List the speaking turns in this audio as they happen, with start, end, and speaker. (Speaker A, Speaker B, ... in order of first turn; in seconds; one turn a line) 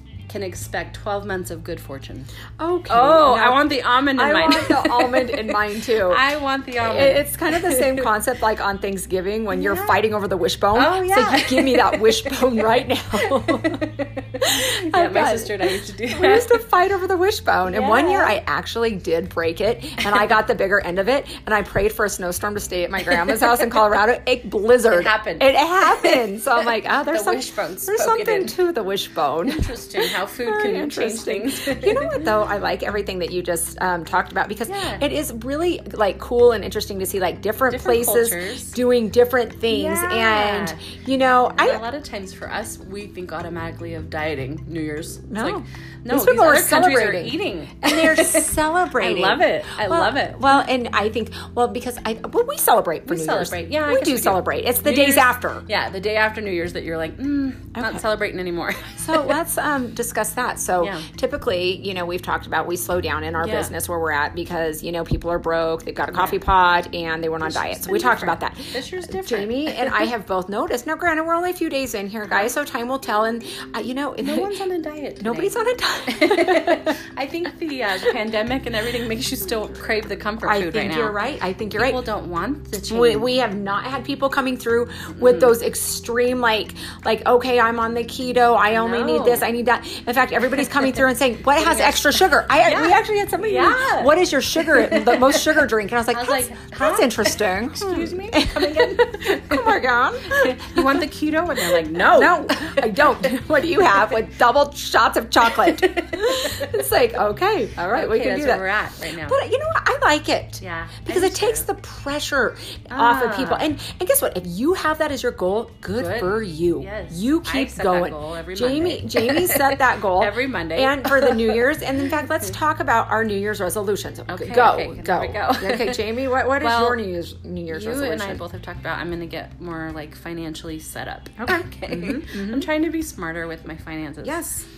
Speaker A: 0.3-2.3
Speaker B: 2.6-6.2
Speaker A: 2.9-8.1
Speaker B: 6.8-13.8
Speaker A: 9.5-10.0
Speaker A: 10.7-16.6
Speaker B: 14.4-29.7
Speaker A: 17.6-18.4
Speaker A: 24.9-28.6
Speaker A: 29.4-32.3
Speaker B: 30.4-41.8
Speaker A: 34.7-35.0
Speaker A: 37.7-38.8
Speaker A: 39.7-40.9
Speaker A: 41.5-50.6
Speaker B: 45.3-55.6
Speaker A: 53.0-59.4
Speaker B: 57.8-58.0
Speaker B: 59.0-74.5
Speaker A: 60.8-61.1
Speaker A: 63.4-63.7
Speaker A: 66.1-66.4
Speaker A: 67.4-70.1
Speaker A: 72.3-72.5
Speaker A: 74.2-75.6
Speaker B: 75.2-77.0
Speaker A: 76.1-81.2
Speaker B: 80.4-82.0
Speaker A: 81.7-83.3
Speaker B: 82.9-101.0
Speaker A: 85.1-85.6
Speaker A: 88.7-89.5
Speaker A: 90.6-90.9
Speaker A: 91.5-103.4
Speaker B: 101.6-128.4
Speaker A: 105.4-106.9
Speaker A: 107.9-109.4
Speaker A: 110.6-111.7
Speaker A: 112.9-113.7
Speaker A: 115.9-122.1
Speaker A: 124.3-127.0
Speaker A: 127.7-134.5
Speaker B: 131.4-132.7
Speaker B: 134.2-134.6